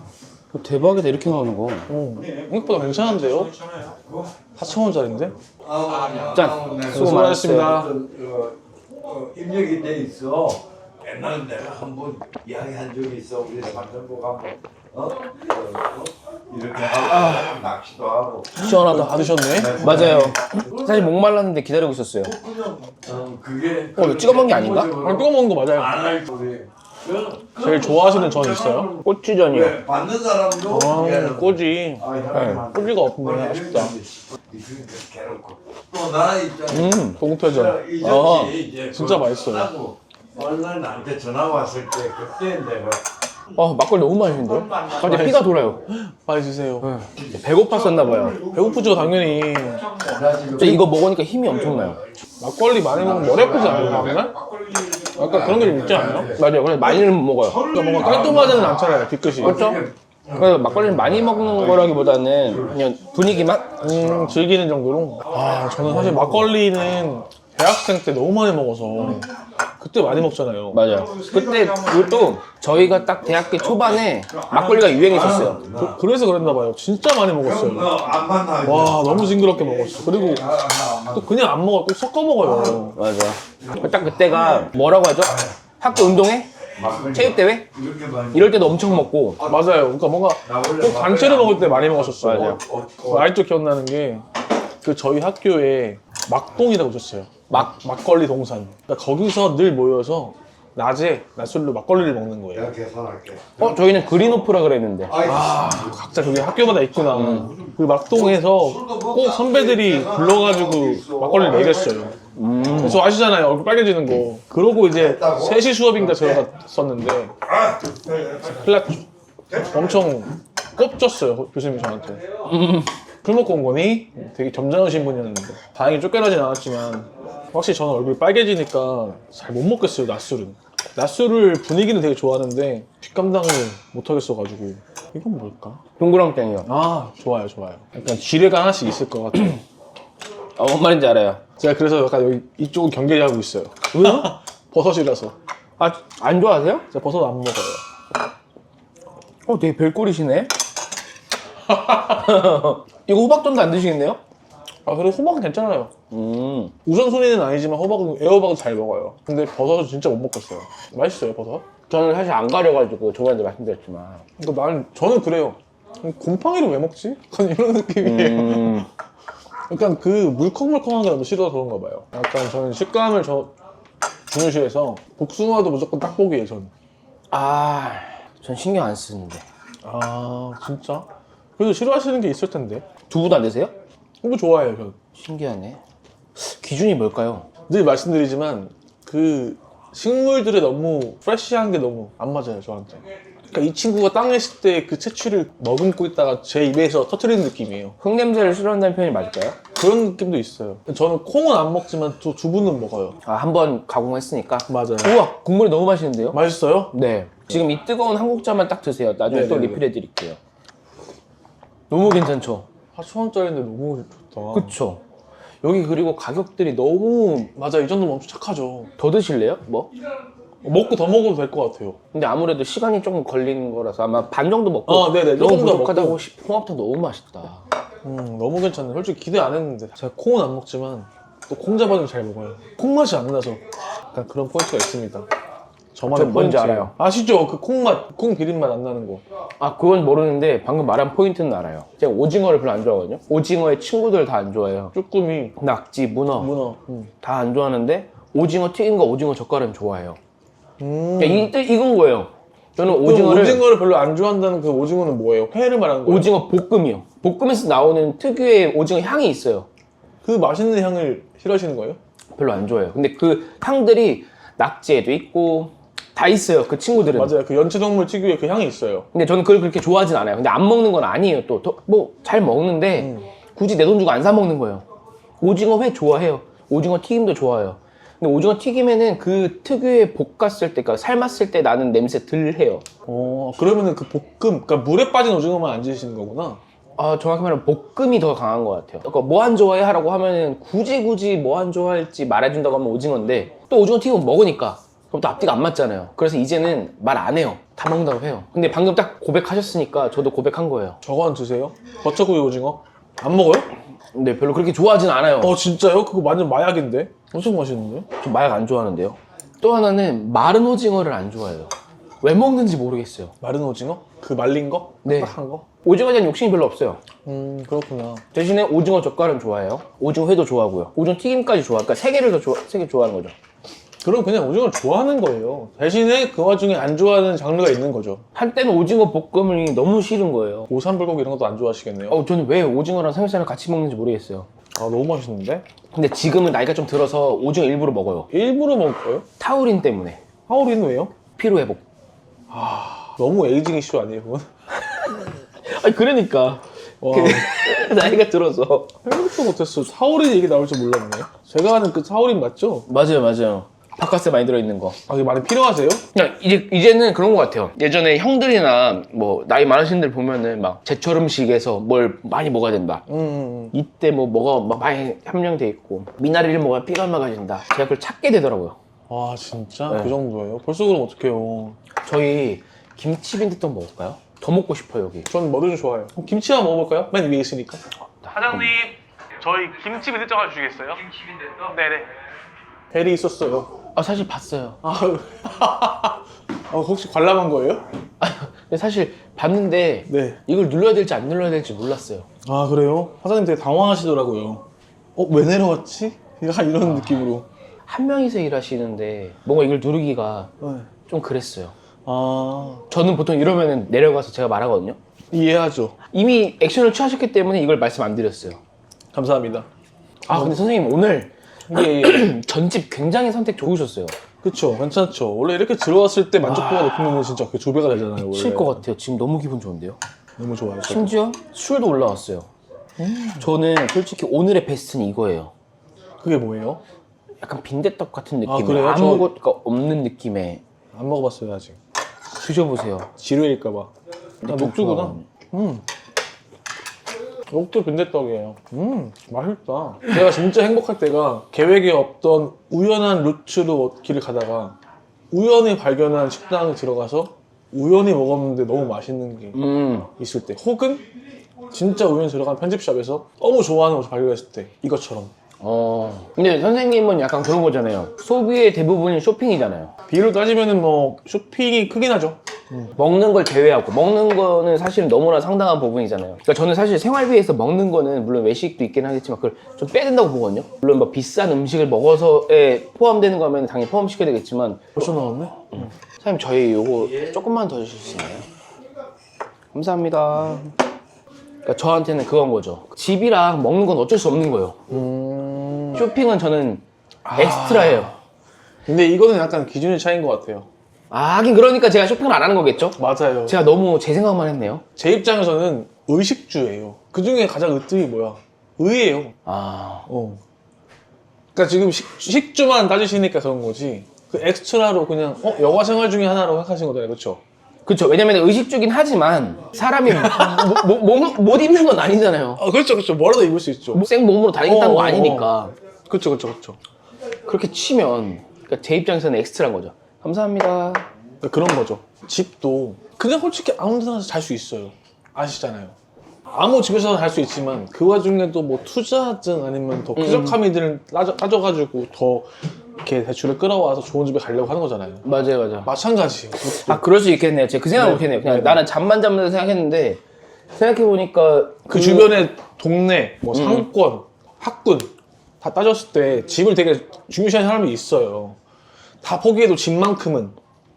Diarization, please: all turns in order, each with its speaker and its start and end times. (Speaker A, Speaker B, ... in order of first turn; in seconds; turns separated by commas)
Speaker A: 0.5-1.9, Speaker B: 1.9-3.8, Speaker C: 3.9-4.3, Speaker B: 4.5-5.3, Speaker C: 5.6-7.1, Speaker A: 6.3-7.9, Speaker B: 6.7-8.0, Speaker C: 7.7-18.6, Speaker A: 16.8-17.6, Speaker B: 18.6-20.1, Speaker A: 18.6-19.2, Speaker C: 19.4-20.9, Speaker A: 19.8-22.4, Speaker C: 22.4-25.2, Speaker A: 24.0-24.9, Speaker B: 24.9-26.1, Speaker C: 25.8-29.0, Speaker B: 27.6-28.9, Speaker A: 29.0-29.8, Speaker C: 29.5-43.0, Speaker B: 30.7-34.0, Speaker A: 32.3-32.7, Speaker A: 36.7-37.2, Speaker B: 37.2-39.8, Speaker A: 43.6-45.8, Speaker B: 45.0-46.9, Speaker A: 46.8-48.4, Speaker C: 47.9-48.9, Speaker B: 48.4-49.9, Speaker C: 50.0-50.8, Speaker A: 50.5-52.0, Speaker B: 52.4-54.4, Speaker C: 53.0-56.4, Speaker B: 54.9-56.3, Speaker A: 56.3-57.7, Speaker C: 57.6-58.7, Speaker B: 57.7-59.6, Speaker A: 59.4-63.8, Speaker C: 59.6-61.9, Speaker B: 63.8-69.3, Speaker C: 63.9-64.2, Speaker C: 65.8-66.3, Speaker B: 69.8-70.8, Speaker A: 70.7-75.6, Speaker C: 71.1-72.3, Speaker C: 74.9-75.9, Speaker B: 75.7-78.0, Speaker C: 77.5-81.2, Speaker B: 78.6-83.0, Speaker A: 82.9-87.7, Speaker C: 86.8-89.5, Speaker A: 88.3-89.4, Speaker B: 89.4-94.3, Speaker C: 90.5-93.2, Speaker A: 92.2-92.6, Speaker B: 94.8-102.8, Speaker C: 102.6-103.7, Speaker A: 103.6-105.2, Speaker C: 105.1-105.7, Speaker B: 105.2-112.2, Speaker A: 107.1-107.5, Speaker C: 108.8-112.1, Speaker A: 112.3-113.0, Speaker B: 112.8-117.4, Speaker C: 115.2-115.5, Speaker B: 118.0-122.2, Speaker A: 122.4-122.9, Speaker B: 123.2-135.8, Speaker A: 136.0-136.7, Speaker B: 136.7-139.6, Speaker A: 140.6-141.4, Speaker B: 141.6-145.3, Speaker A: 143.9-144.3, Speaker A: 145.8-146.9, Speaker B: 146.9-147.8, Speaker A: 149.5-150.5, Speaker B: 151.7-152.1, Speaker A: 152.0-154.2, Speaker B: 154.9-155.9, Speaker A: 156.1-156.8, Speaker B: 156.8-161.7, Speaker A: 161.9-164.2, Speaker B: 164.4-168.9, Speaker A: 168.0-168.9, Speaker B: 169.7-173.5, Speaker B: 174.3-176.7, Speaker A: 177.3-179.4, Speaker B: 179.8-181.1, Speaker B: 181.6-182.8, Speaker A: 183.1-183.7, Speaker B: 184.2-185.0, Speaker A: 185.2-185.8, Speaker A: 186.3-187.5, Speaker B: 187.7-198.0, Speaker A: 198.0-199.6, Speaker B: 199.8-203.2, Speaker A: 203.2-206.4, Speaker B: 204.7-205.2, Speaker B: 206.3-207.0, Speaker A: 206.9-210.4, Speaker B: 209.3-209.8, Speaker A: 211.9-212.7, Speaker B: 212.9-214.8, Speaker A: 214.5-215.0, Speaker A: 215.6-217.5, Speaker B: 217.6-218.9, Speaker A: 219.0-219.9, Speaker B: 220.6-222.0, Speaker A: 222.1-227.7, Speaker B: 224.9-226.2, Speaker B: 228.0-235.3, Speaker B: 235.9-239.2, Speaker A: 236.1-236.9, Speaker A: 239.6-244.9, Speaker B: 244.9-245.6, Speaker A: 245.6-246.5, Speaker B: 246.4-247.1, Speaker A: 247.2-250.2, Speaker B: 250.8-251.5, Speaker A: 251.2-253.7, Speaker B: 252.8-256.3, Speaker A: 256.1-259.7, Speaker B: 260.2-262.0, Speaker A: 262.4-267.3, Speaker B: 267.1-269.1, Speaker A: 269.1-274.9, Speaker B: 273.0-273.2, Speaker A: 275.4-282.9, Speaker B: 283.1-286.6, Speaker A: 287.0-301.0, Speaker B: 301.0-303.7, Speaker A: 304.1-305.6, Speaker B: 305.4-308.1, Speaker A: 308.2-311.7, Speaker A: 312.2-313.3, Speaker B: 313.4-315.7, Speaker A: 315.0-317.0, Speaker B: 317.2-318.2, Speaker A: 318.3-323.3, Speaker B: 324.0-328.2, Speaker A: 328.3-330.7, Speaker B: 330.7-332.2, Speaker A: 332.1-334.5, Speaker B: 334.8-335.7, Speaker A: 335.9-338.3, Speaker B: 338.3-339.3, Speaker A: 339.4-340.2, Speaker B: 340.5-341.1, Speaker A: 341.4-341.8, Speaker B: 342.5-344.5, Speaker A: 344.8-349.0, Speaker B: 347.0-347.5, Speaker B: 349.1-352.9, Speaker A: 352.9-355.0, Speaker B: 355.1-356.0, Speaker A: 356.1-363.1, Speaker B: 363.1-363.8, Speaker A: 363.7-368.8, Speaker B: 369.1-371.8, Speaker A: 369.9-370.1, Speaker A: 372.0-375.3, Speaker B: 375.3-382.1, Speaker A: 378.0-378.7, Speaker B: 382.9-383.7, Speaker A: 383.9-384.8, Speaker B: 384.8-387.8, Speaker A: 388.2-392.3, Speaker B: 390.1-390.4, Speaker B: 392.4-394.6, Speaker B: 395.2-397.5, Speaker A: 396.9-397.3, Speaker A: 397.9-400.5, Speaker B: 400.6-400.9, Speaker A: 401.1-401.7, Speaker B: 402.1-402.9, Speaker A: 402.9-405.0, Speaker B: 405.3-406.0, Speaker A: 406.1-408.6, Speaker B: 409.1-409.7, Speaker B: 410.3-410.6, Speaker A: 410.3-414.1, Speaker B: 411.7-412.4, Speaker B: 414.4-418.8, Speaker A: 416.4-417.1, Speaker A: 418.2-420.0, Speaker B: 420.4-421.1, Speaker A: 420.9-422.5, Speaker B: 423.0-423.5, Speaker A: 423.4-425.5, Speaker B: 426.2-426.8, Speaker A: 427.4-430.6, Speaker B: 428.5-429.3, Speaker B: 430.9-431.8, Speaker A: 432.3-433.1, Speaker B: 433.2-433.9, Speaker A: 434.4-435.3, Speaker B: 434.4-435.9, Speaker B: 437.5-444.8, Speaker B: 445.3-449.6, Speaker A: 449.5-450.1, Speaker B: 450.2-451.0, Speaker B: 451.7-455.3, Speaker A: 455.6-459.9, Speaker B: 460.1-462.9, Speaker A: 462.9-475.1, Speaker B: 475.0-475.9, Speaker A: 475.7-478.5, Speaker A: 479.7-480.7, Speaker A: 481.6-484.8, Speaker B: 484.9-486.1, Speaker A: 485.9-488.1, Speaker B: 487.2-488.2, Speaker B: 488.9-490.7, Speaker A: 491.1-494.8, Speaker B: 493.0-493.6, Speaker B: 495.0-499.4, Speaker A: 499.5-500.1, Speaker B: 500.1-500.4, Speaker B: 501.5-507.4, Speaker A: 507.9-512.6, Speaker B: 510.1-510.9, Speaker B: 512.6-514.1, Speaker A: 513.9-515.7, Speaker B: 514.6-515.5, Speaker B: 516.1-516.8, Speaker A: 517.5-521.1, Speaker B: 521.4-526.0, Speaker B: 526.5-535.2, Speaker A: 530.2-530.6, Speaker A: 535.2-535.9, Speaker B: 535.9-537.0, Speaker A: 536.6-540.2, Speaker B: 538.0-538.8, Speaker A: 540.8-542.4, Speaker B: 541.9-548.6, Speaker A: 543.5-543.9, Speaker B: 549.2-550.6